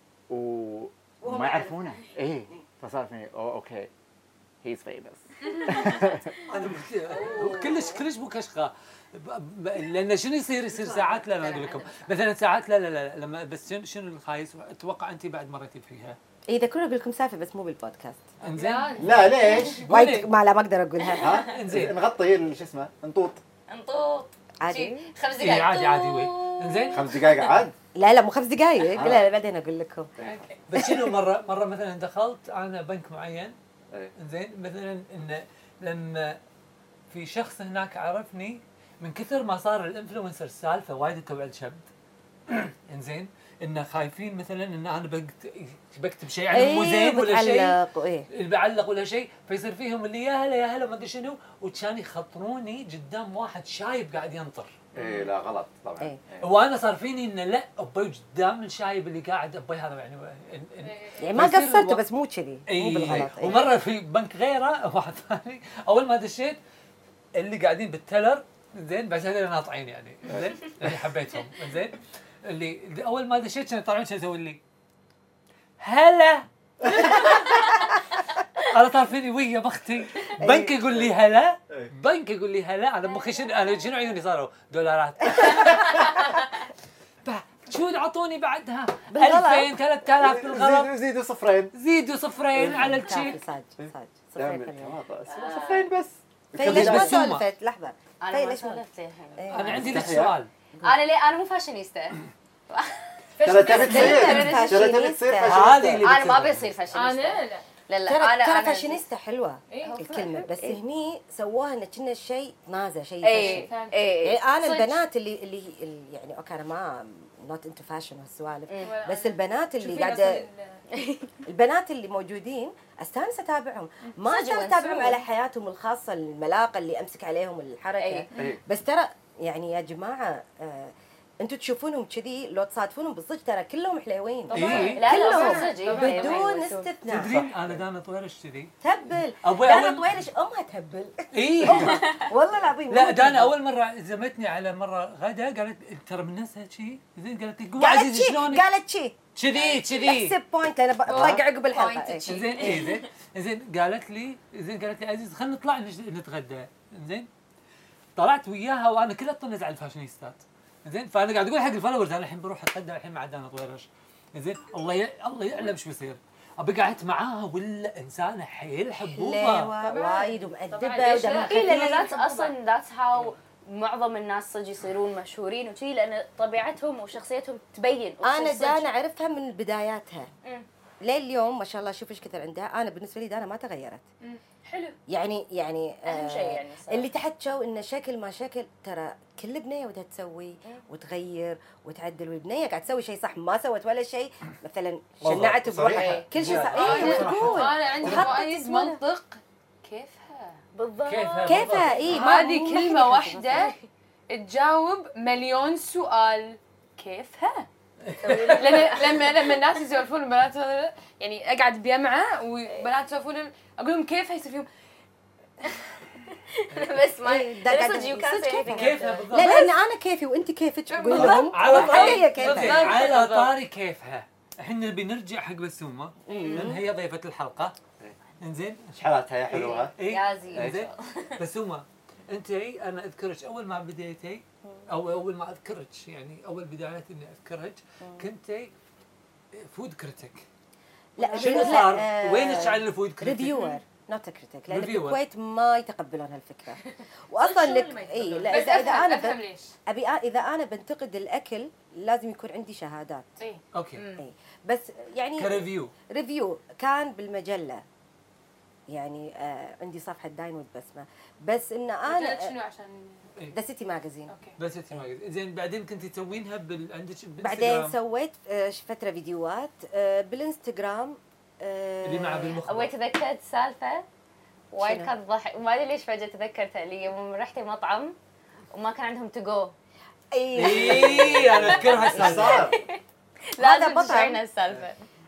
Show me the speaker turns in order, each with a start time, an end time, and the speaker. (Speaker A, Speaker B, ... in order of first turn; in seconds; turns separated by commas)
Speaker A: 0.3-3.9, Speaker B: 1.2-1.8, Speaker A: 4.6-6.3, Speaker C: 5.4-5.9, Speaker D: 5.7-6.4, Speaker E: 6.4-16.2, Speaker D: 7.1-8.0, Speaker D: 10.8-12.1, Speaker B: 16.5-18.3, Speaker E: 18.4-20.3, Speaker C: 18.5-19.8, Speaker A: 19.0-19.8, Speaker B: 19.7-21.4, Speaker D: 21.1-21.4, Speaker A: 21.2-23.4, Speaker E: 21.4-21.9, Speaker D: 23.7-27.7, Speaker B: 24.6-25.1, Speaker E: 25.4-27.0, Speaker A: 26.9-27.7, Speaker B: 27.9-30.1, Speaker A: 28.9-29.2, Speaker D: 30.2-30.8, Speaker E: 30.7-33.5, Speaker E: 34.1-36.4, Speaker E: 37.1-41.8, Speaker E: 42.5-47.7, Speaker B: 46.5-48.3, Speaker E: 48.3-54.8, Speaker A: 54.9-56.5, Speaker E: 56.4-62.0, Speaker C: 60.8-61.3, Speaker B: 61.2-63.6, Speaker E: 62.7-66.6, Speaker A: 63.0-63.3, Speaker E: 67.4-74.6, Speaker A: 70.3-71.0, Speaker E: 75.8-77.4, Speaker E: 78.6-86.2, Speaker B: 80.4-80.7, Speaker D: 85.6-86.1, Speaker E: 87.2-90.9, Speaker B: 89.1-89.7, Speaker A: 90.1-91.7, Speaker E: 91.7-93.4, Speaker A: 92.5-93.2, Speaker B: 92.7-95.0, Speaker A: 93.8-97.2, Speaker D: 95.3-95.9, Speaker B: 96.5-98.8, Speaker E: 96.6-97.4, Speaker D: 98.2-99.7, Speaker B: 99.4-99.9, Speaker E: 99.5-100.5, Speaker A: 99.7-100.3, Speaker D: 100.8-102.9, Speaker C: 103.4-104.6, Speaker D: 103.4-104.7, Speaker A: 103.4-106.6, Speaker B: 103.6-105.8, Speaker E: 103.9-104.7, Speaker E: 105.4-106.5, Speaker D: 106.0-109.0, Speaker C: 106.9-107.7, Speaker B: 108.0-113.7, Speaker C: 109.7-110.4, Speaker D: 109.8-110.8, Speaker D: 113.2-114.4, Speaker C: 113.3-115.0, Speaker B: 114.2-120.4, Speaker D: 118.7-118.9, Speaker C: 118.8-120.8, Speaker D: 120.9-121.3, Speaker B: 121.5-137.4, Speaker D: 124.2-125.2, Speaker D: 128.0-128.3, Speaker A: 128.3-128.6, Speaker C: 134.5-136.8, Speaker E: 134.5-135.1, Speaker D: 134.8-136.9, Speaker E: 137.1-138.7, Speaker A: 137.2-137.8, Speaker B: 138.8-143.5, Speaker E: 139.4-140.1, Speaker E: 141.3-142.0, Speaker D: 142.0-142.3, Speaker E: 142.9-148.7, Speaker B: 147.8-152.3, Speaker E: 149.3-150.3, Speaker A: 151.1-151.4, Speaker D: 151.2-153.0, Speaker E: 152.3-157.3, Speaker E: 158.2-169.7, Speaker B: 169.0-172.1, Speaker C: 169.8-172.5, Speaker D: 171.1-178.9, Speaker B: 178.2-180.3, Speaker B: 181.0-184.0, Speaker C: 184.2-184.9, Speaker B: 185.1-199.0, Speaker D: 186.0-187.1, Speaker A: 195.2-198.3, Speaker D: 195.9-196.3, Speaker E: 196.3-197.2, Speaker C: 196.8-200.6, Speaker D: 200.7-201.9, Speaker E: 201.1-202.1, Speaker B: 201.4-203.7, Speaker C: 202.1-203.7, Speaker D: 203.6-203.8, Speaker C: 204.3-207.7, Speaker E: 208.0-208.9, Speaker D: 208.2-209.6, Speaker C: 208.5-214.7, Speaker D: 216.5-219.6, Speaker B: 217.2-223.0, Speaker E: 218.7-219.7, Speaker C: 220.9-223.5, Speaker E: 221.1-227.8, Speaker A: 221.1-221.4, Speaker B: 226.2-226.8, Speaker D: 226.3-226.8, Speaker E: 228.4-229.0, Speaker A: 229.0-229.9, Speaker E: 229.5-238.7, Speaker D: 229.7-231.4, Speaker A: 230.5-230.8, Speaker E: 239.5-240.4, Speaker B: 241.2-253.3, Speaker E: 241.2-243.5, Speaker D: 241.3-241.9, Speaker C: 243.5-243.8, Speaker E: 244.7-245.2, Speaker D: 246.8-248.9, Speaker C: 248.5-249.7, Speaker E: 253.7-254.0, Speaker D: 253.9-254.2, Speaker B: 254.2-257.8, Speaker E: 255.4-255.9, Speaker B: 258.9-262.5, Speaker C: 262.1-263.3, Speaker B: 263.5-264.3, Speaker C: 264.3-264.6, Speaker E: 264.6-267.9, Speaker B: 267.4-272.6, Speaker E: 272.0-272.9, Speaker D: 272.6-274.0, Speaker D: 274.7-278.1, Speaker B: 274.8-275.1, Speaker D: 278.7-279.7, Speaker B: 280.3-282.6, Speaker E: 280.5-282.6, Speaker D: 280.7-281.6, Speaker A: 280.9-282.8, Speaker D: 282.5-285.0, Speaker B: 283.6-284.4